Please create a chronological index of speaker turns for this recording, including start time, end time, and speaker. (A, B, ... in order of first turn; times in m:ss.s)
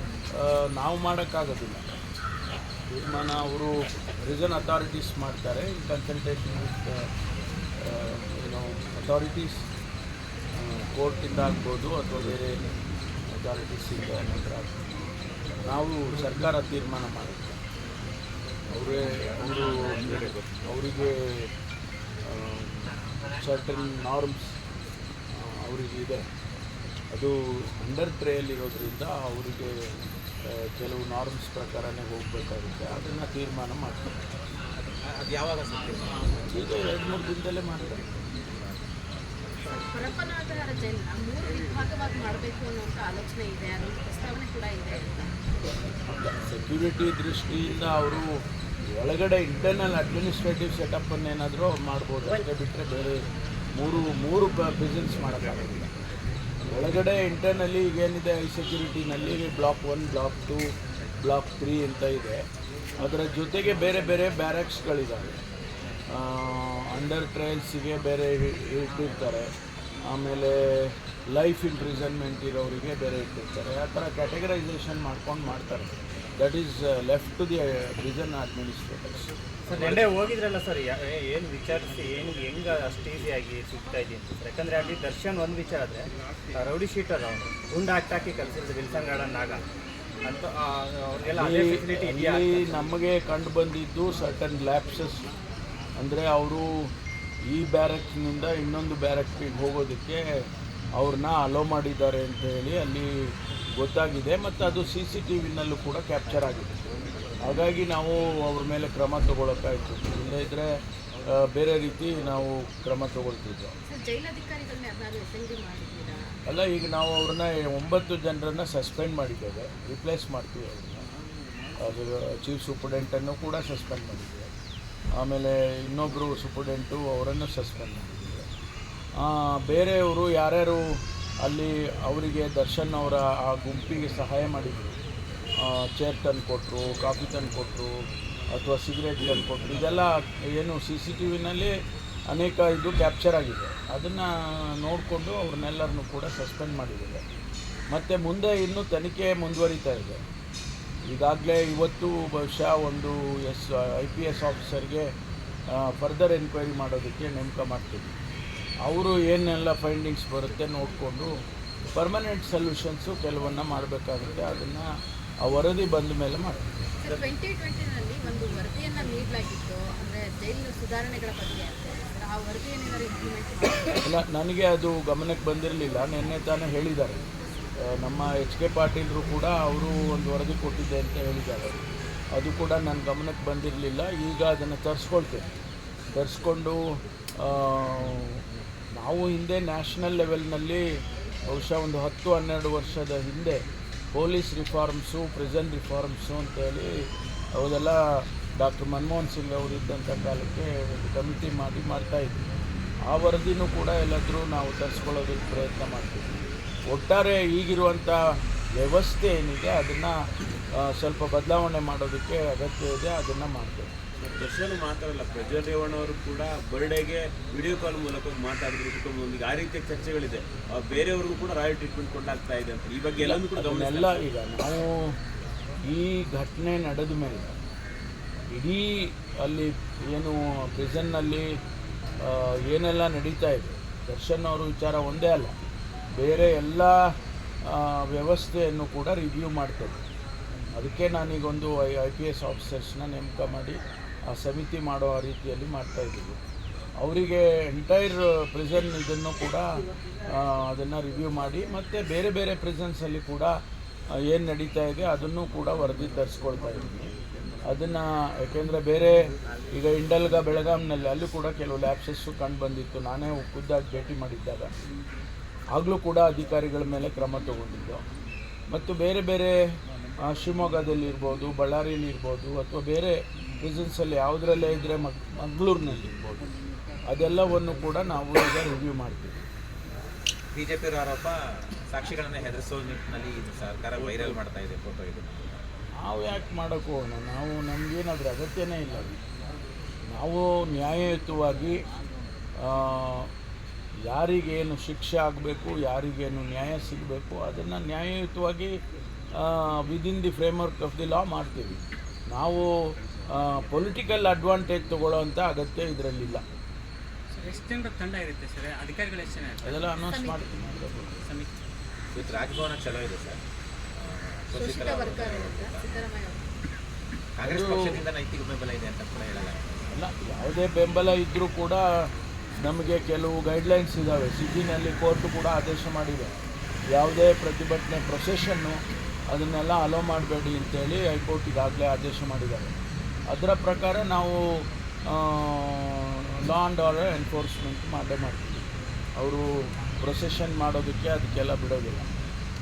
0:00.4-0:01.8 A
0:02.9-0:03.7 A
0:04.2-0:07.0 A
0:07.8-0:09.6 A
0:10.6-0:12.6 A
0:13.3-0:14.8 A
0:15.6-0:17.6 A
0:18.7-0:21.2 A
0:22.3-0:24.5 A
0:25.4-0:26.2 A
0:27.1-0:29.9 A
0:30.4-0:34.1 A
0:35.0-0:36.5 B
0:36.5-0:38.1 A
0:38.4-0:38.8 B
0:39.9-0:45.3 C
0:46.1-0:48.2 A
0:49.0-0:53.2 A
0:53.7-0:55.9 A
0:56.7-1:02.4 A
1:03.0-1:05.4 A
1:06.1-1:09.5 A
1:10.1-1:19.3 A
1:19.7-1:29.6 D
1:30.2-1:32.8 D
1:31.3-1:35.2 A
1:36.0-1:36.9 A
1:37.5-1:40.3 A
1:41.0-1:43.1 A
1:43.7-1:46.7 A
1:47.4-1:50.7 A
1:51.3-1:53.7 A
1:53.9-1:56.4 C
1:56.4-2:01.0 A
2:01.8-2:04.5 A
2:05.2-2:08.4 A
2:09.2-2:14.9 A
2:15.6-2:18.0 A
2:18.5-2:21.8 A
2:22.3-2:27.2 A
2:27.9-2:30.2 A
2:31.1-2:35.1 A
2:35.7-2:38.1 A
2:38.8-2:41.3 A
2:41.9-2:44.9 A
2:45.4-2:46.7 A
2:47.0-2:54.0 C
2:47.0-2:47.3 E
2:54.0-2:57.2 A
2:57.8-3:05.5 A
3:06.1-3:08.4 A
3:08.9-3:10.9 A
3:11.5-3:13.6 A
3:14.1-3:16.9 A
3:17.5-3:18.0 A
3:18.6-3:22.5 A
3:23.1-3:28.2 A
3:28.8-3:30.2 A
3:30.8-3:33.9 A
3:34.3-3:44.2 E
3:43.1-3:45.2 A
3:45.9-3:47.5 A
3:48.5-3:51.5 A
3:52.2-3:55.5 A
3:56.2-3:57.0 A
3:57.6-4:00.0 A
4:00.7-4:06.4 A
4:07.0-4:09.7 A
4:10.3-4:13.5 A
4:14.2-4:17.1 A
4:17.6-4:24.7 A
4:25.7-4:28.0 A
4:28.7-4:29.6 A
4:30.2-4:36.4 A
4:37.1-4:39.4 A
4:40.5-4:45.6 B
4:46.0-4:49.2 A
4:50.1-4:51.8 A
4:52.6-4:53.3 A
4:54.1-4:58.8 A
4:59.4-5:02.7 A
5:03.3-5:06.4 A
5:07.4-5:10.0 F
5:09.6-5:11.2 A
5:10.1-5:10.4 C
5:12.1-5:13.4 B
5:14.0-5:16.0 B
5:14.5-5:16.5 C
5:17.4-5:19.9 B
5:17.4-5:18.0 A
5:19.9-5:22.1 A
5:22.6-5:26.3 A
5:26.9-5:28.8 A
5:29.3-5:32.7 A
5:33.3-5:38.6 A
5:39.2-5:39.5 A
5:40.0-5:42.2 A